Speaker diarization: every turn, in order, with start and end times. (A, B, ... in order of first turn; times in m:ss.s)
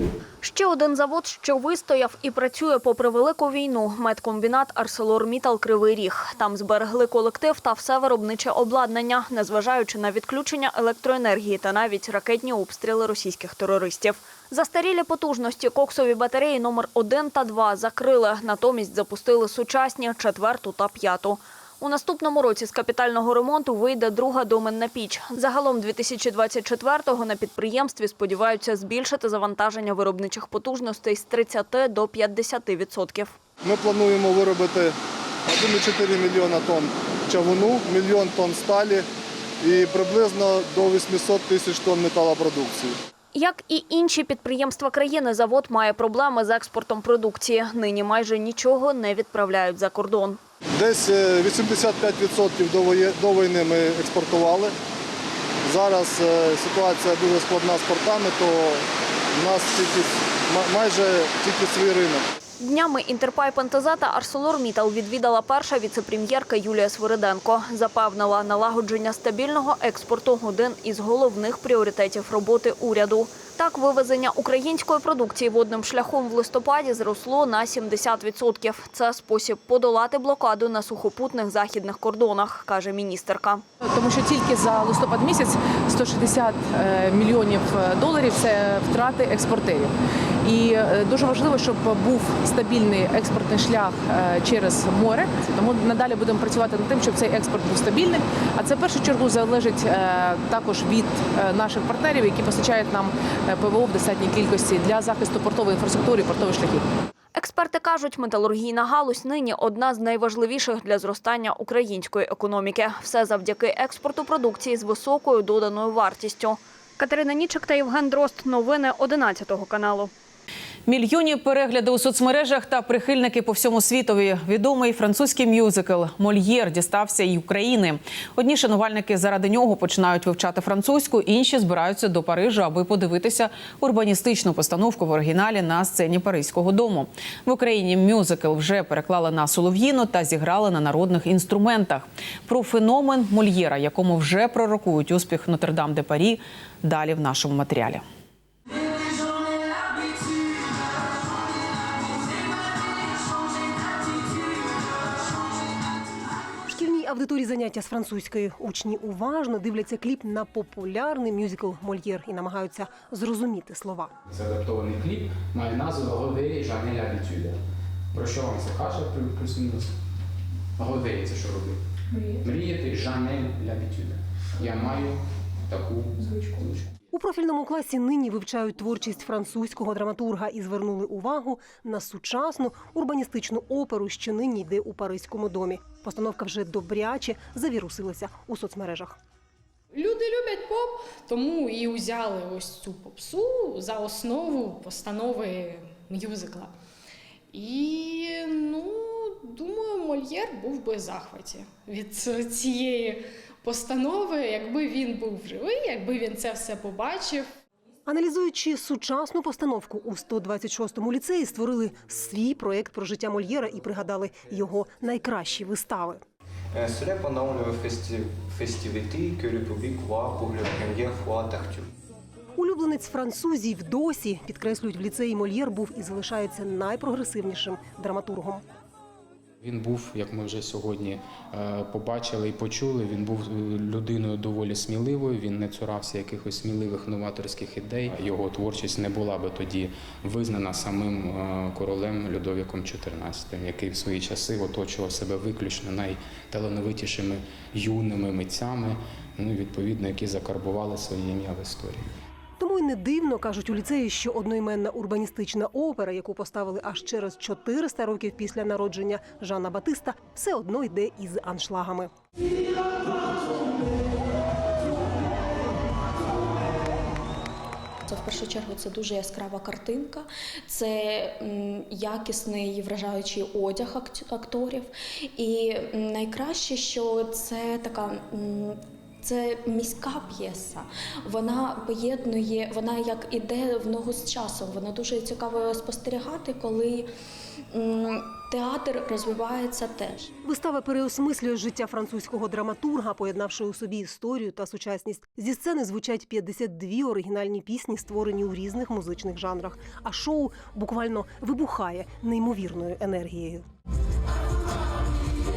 0:00.4-0:33.4 A
0:33.6-0:39.1 B
0:39.6-0:43.0 B
0:43.3-0:50.4 A
0:50.7-0:54.7 B
0:55.6-1:02.3 B
1:02.6-1:23.6 A
1:23.8-1:46.9 C
1:47.4-2:00.1 A
2:00.9-2:28.0 D
2:36.7-2:44.2 E
2:44.3-2:47.6 F
2:48.1-2:50.0 F
2:50.8-2:51.8 F
2:52.4-2:56.9 F
2:57.1-3:09.2 E
3:09.9-3:16.7 G
3:17.5-3:27.4 G
3:28.1-3:36.2 E
3:36.7-3:41.9 H
3:42.6-3:48.6 E
3:49.6-4:12.1 F
4:12.6-4:22.1 E
4:28.1-4:47.1 I
4:47.7-4:50.3 I
4:50.4-5:03.7 E